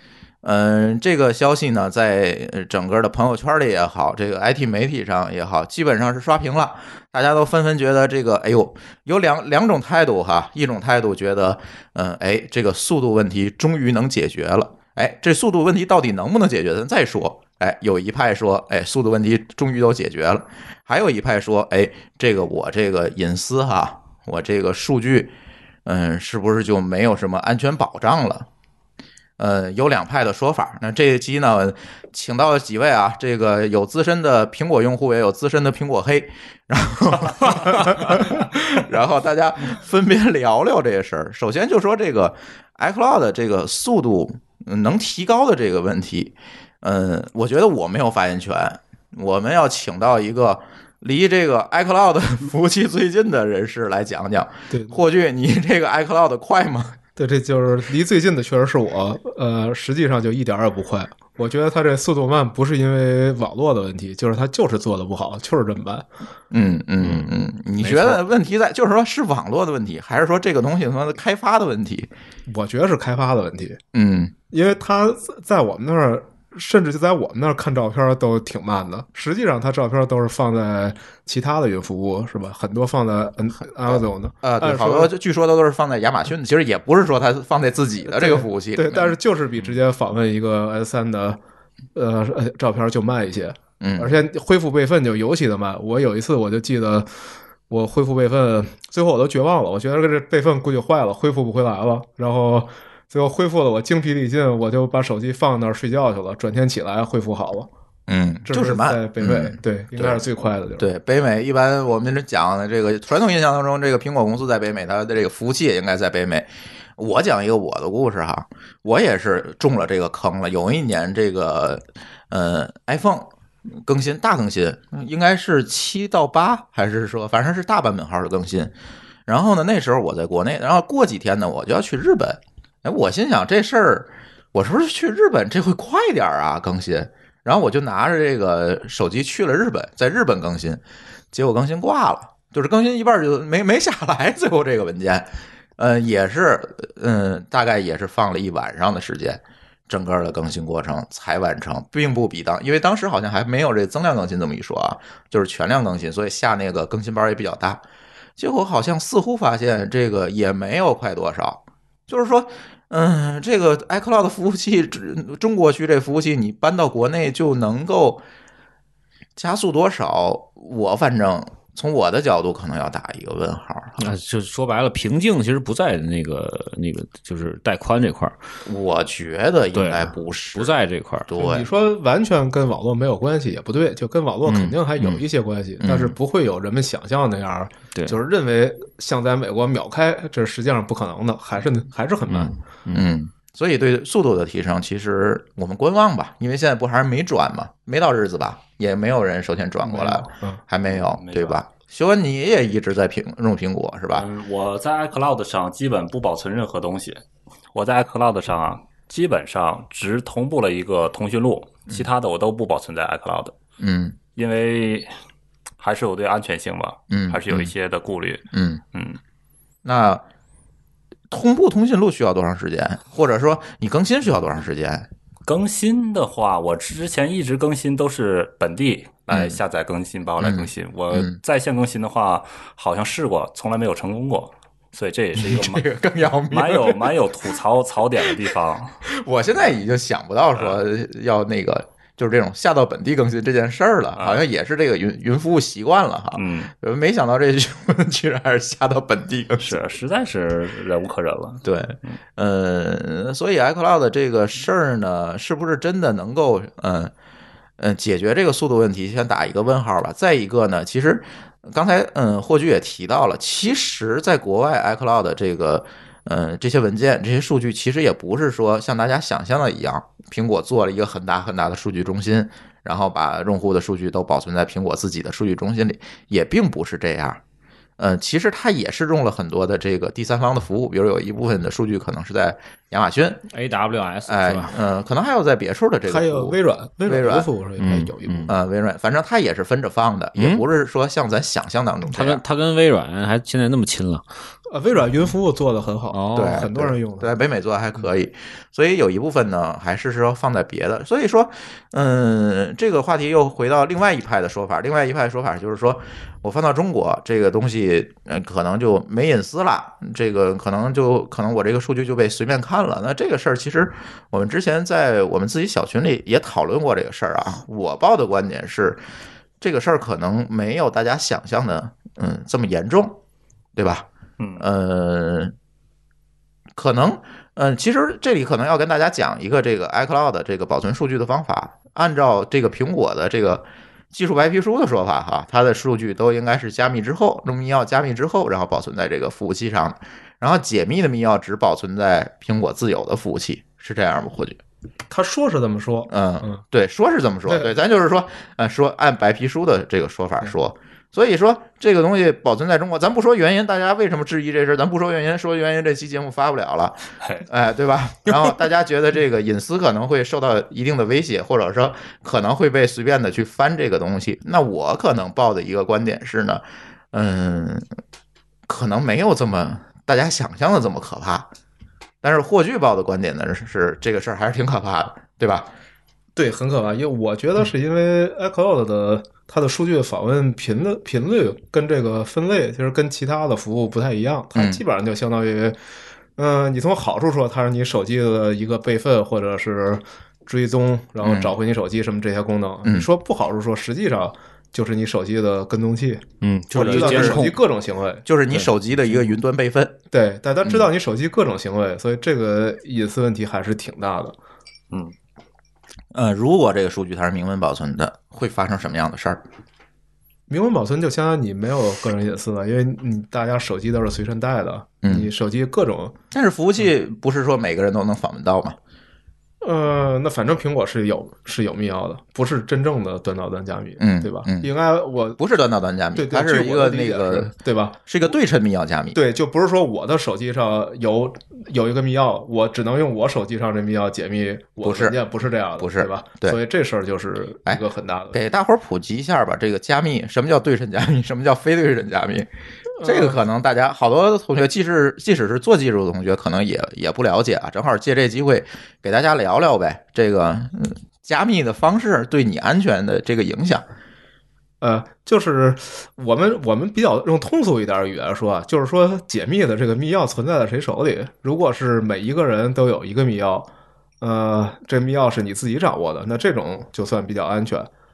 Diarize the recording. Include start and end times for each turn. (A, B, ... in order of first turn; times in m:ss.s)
0:00.4-0:25.3 A
0:25.9-0:28.5 A
0:29.4-0:57.0 A
0:54.7-0:55.0 B
0:57.2-1:06.1 B
1:06.5-1:12.1 A
1:07.0-1:07.3 C
1:07.8-1:08.2 C
1:12.5-1:13.8 B
1:13.9-1:14.3 A
1:14.5-1:25.1 B
1:23.8-1:29.2 A
1:28.0-1:31.4 B
1:32.0-1:37.1 B
1:33.8-1:34.1 A
1:37.7-1:47.7 B
1:48.1-1:50.2 A
1:48.5-1:50.9 B
1:50.8-2:08.7 A
2:09.3-2:20.8 A
2:21.3-2:37.8 A
2:38.4-2:48.2 A
2:49.4-2:54.0 A
2:54.0-2:58.4 C
2:58.7-3:01.7 A
2:59.7-3:01.3 C
3:01.4-3:12.5 B
3:04.5-3:04.8 C
3:05.8-3:06.2 A
3:12.3-3:13.1 C
3:12.9-3:24.3 A
3:19.8-3:20.6 B
3:20.9-3:21.6 D
3:24.1-3:27.2 D
3:27.7-3:33.6 D
3:33.8-3:34.2 A
3:34.4-3:35.1 D
3:35.8-3:39.2 D
3:37.1-3:37.7 A
3:38.5-3:38.8 A
3:39.8-3:40.2 A
3:41.3-3:45.1 A
3:45.4-3:55.9 D
3:49.3-3:49.6 A
3:50.4-3:51.4 A
3:55.4-3:57.2 A
3:56.5-3:59.0 D
3:59.1-4:09.8 A
4:00.6-4:00.8 D
4:04.2-4:04.4 D
4:06.4-4:06.7 D
4:09.6-4:12.2 D
4:11.6-4:17.1 A
4:17.8-4:37.4 A
4:38.0-4:43.4 A
4:43.5-4:44.7 C
4:44.3-4:47.5 A
4:46.1-4:48.5 B
4:47.8-4:48.5 C
4:48.5-4:52.4 A
4:50.4-4:50.6 C
4:52.1-4:54.2 C
4:54.7-4:57.3 B
4:56.1-4:56.6 C
4:56.3-5:19.0 A
5:19.6-5:23.2 A
5:23.8-5:25.6 A
5:24.4-5:24.7 D
5:26.8-5:44.6 A
5:45.1-5:46.6 B
5:46.1-6:07.9 A
5:47.5-5:47.7 B
5:57.2-5:57.5 D
6:08.7-6:11.5 A
6:12.2-6:15.7 A
6:16.4-6:25.8 B
6:24.6-6:24.8 A
6:26.4-6:38.3 B
6:31.2-6:31.5 A
6:36.4-6:37.6 C
6:36.7-6:37.5 A
6:38.2-6:40.0 A
6:40.1-6:44.4 B
6:46.1-6:49.4 A
6:50.5-6:56.2 B
6:55.0-6:55.3 A
6:56.3-6:58.8 A
6:59.6-7:05.4 B
7:04.0-7:04.7 A
7:05.4-7:07.6 A
7:06.2-7:08.0 B
7:08.1-7:09.2 A
7:09.1-7:18.4 B
7:14.8-7:15.2 A
7:15.8-7:16.6 A
7:17.7-7:22.5 A
7:23.0-7:23.4 B
7:23.0-7:33.9 A
7:34.8-7:43.7 B
7:44.2-7:47.9 B